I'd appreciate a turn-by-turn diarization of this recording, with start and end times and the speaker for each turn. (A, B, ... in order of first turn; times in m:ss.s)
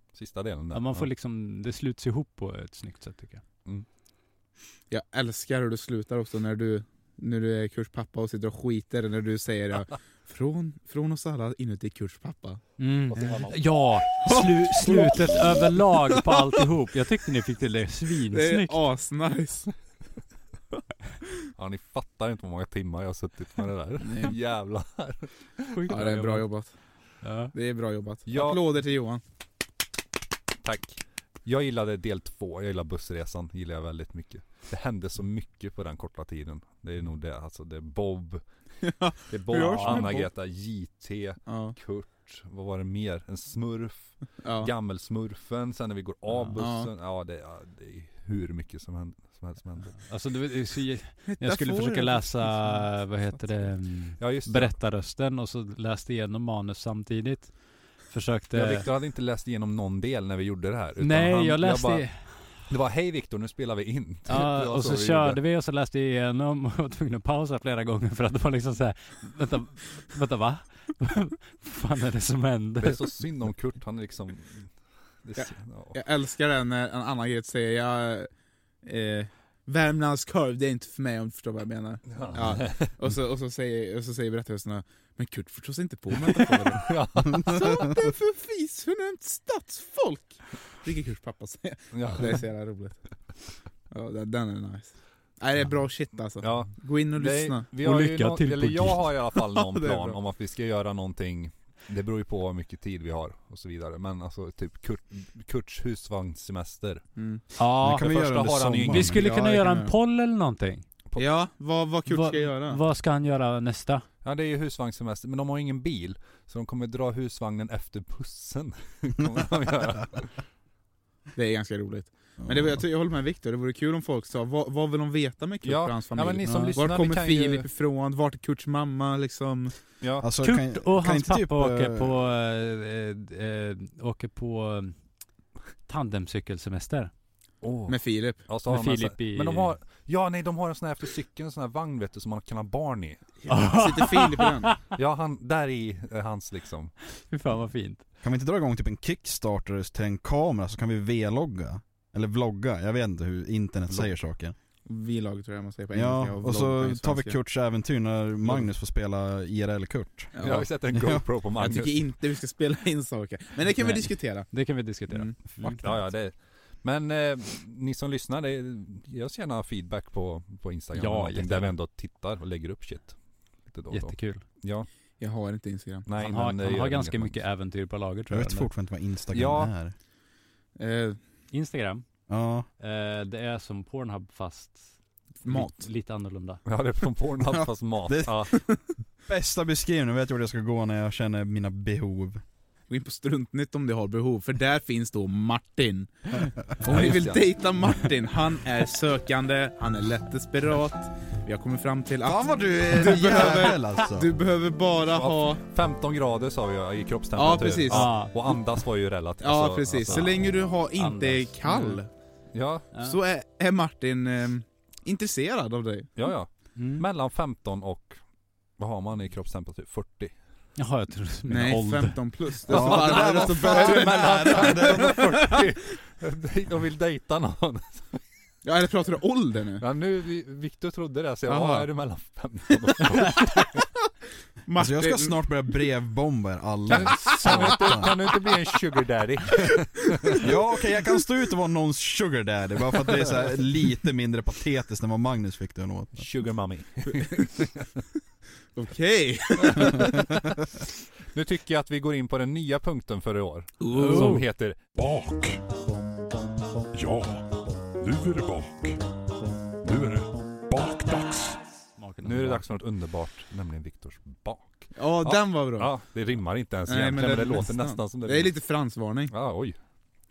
0:00.1-0:01.1 A
0:00.7-0:03.4 B
0:04.9-0:12.6 C
0:12.8-0:18.8 B
0:13.1-0:13.6 A
0:13.2-0:13.4 C
0:14.2-0:16.5 C
0:18.3-0:19.7 C
0:21.6-0:25.8 A
0:24.0-0:24.3 C
0:25.7-0:26.5 B
0:25.9-0:26.7 C
0:27.2-0:27.5 B
0:27.5-0:29.2 C
0:28.3-0:28.6 A
0:30.6-0:38.4 A
0:38.8-0:40.3 C
0:39.3-0:50.0 A
0:39.6-0:40.1 B
0:41.5-0:41.8 C
0:44.4-0:44.7 C
0:46.6-0:46.9 C
0:50.0-0:58.9 B
0:51.3-0:52.7 C
0:54.2-0:54.8 A
0:58.5-1:05.4 A
1:01.0-1:02.4 B
1:04.3-1:13.0 B
1:12.8-1:14.7 A
1:15.2-1:16.0 A
1:15.4-1:18.3 C
1:18.8-1:33.0 C
1:22.1-1:22.9 A
1:26.2-1:27.9 A
1:31.9-1:32.4 A
1:33.9-1:37.7 C
1:36.4-1:47.0 A
1:37.8-1:39.2 B
1:39.5-1:40.2 C
1:47.2-1:47.4 C
1:47.6-1:48.1 B
1:47.8-1:49.3 D
1:47.9-1:49.2 A
1:48.9-1:50.8 B
1:49.2-1:49.9 C
1:51.2-1:52.8 C
1:52.1-1:54.1 B
1:54.2-2:00.4 A
2:01.4-2:09.8 C
2:05.6-2:07.7 A
2:10.0-2:10.3 A
2:10.2-2:12.2 D
2:10.4-2:15.0 B
2:15.9-2:17.1 B
2:17.6-2:23.2 A
2:17.9-2:18.4 C
2:18.7-2:19.7 B
2:23.4-2:24.7 C
2:23.5-2:24.8 B
2:25.0-2:26.9 A
2:27.3-2:28.0 B
2:28.2-2:34.6 D
2:34.8-2:37.4 C
2:35.9-2:40.3 D
2:40.3-2:40.7 C
2:40.4-2:42.0 A
2:40.9-2:41.2 D
2:41.6-2:44.5 C
2:43.8-2:46.0 B
2:45.6-2:53.2 A
2:50.9-2:51.7 B
2:53.7-2:54.9 A
2:53.9-2:54.4 B
2:55.2-2:56.1 C
2:56.1-2:57.4 A
2:56.2-2:58.7 B
2:58.3-2:59.9 D
2:59.3-2:59.7 A
3:00.8-3:01.2 C
3:01.5-3:02.0 B
3:02.3-3:02.7 D
3:02.8-3:04.9 B
3:05.4-3:05.9 C
3:05.4-3:06.6 B
3:06.7-3:08.5 A
3:07.5-3:08.6 D
3:09.3-3:12.4 D
3:12.9-3:25.6 C
3:16.8-3:17.5 A
3:22.2-3:24.3 D
3:25.1-3:30.3 A
3:27.4-3:28.2 C
3:27.9-3:28.4 B
3:29.4-3:32.1 C
3:30.1-3:30.4 B
3:31.0-3:32.0 B
3:32.5-3:32.9 A
3:33.0-3:36.1 C
3:36.2-3:38.2 A
3:36.8-3:37.0 B
3:38.8-3:40.3 A
3:40.8-3:42.2 B
3:41.5-3:45.6 C
3:42.7-3:45.4 D
3:42.7-3:48.2 A
3:48.6-3:49.8 C
3:49.8-3:53.8 A
3:51.5-3:51.9 C
3:53.2-3:53.7 C
3:54.7-3:55.4 C
3:54.8-3:58.1 D
3:56.9-4:00.5 A
4:00.4-4:06.2 D
4:06.2-4:07.9 A
4:08.8-4:10.5 C
4:09.7-4:10.2 A
4:11.3-4:14.8 A
4:13.8-4:14.4 C
4:13.9-4:14.4 B
4:15.0-4:15.6 E
4:16.9-4:19.0 E
4:19.8-4:21.6 E
4:22.0-4:22.6 B
4:22.2-4:28.6 A
4:25.0-4:25.9 C
4:26.9-4:29.3 C
4:29.3-4:29.8 A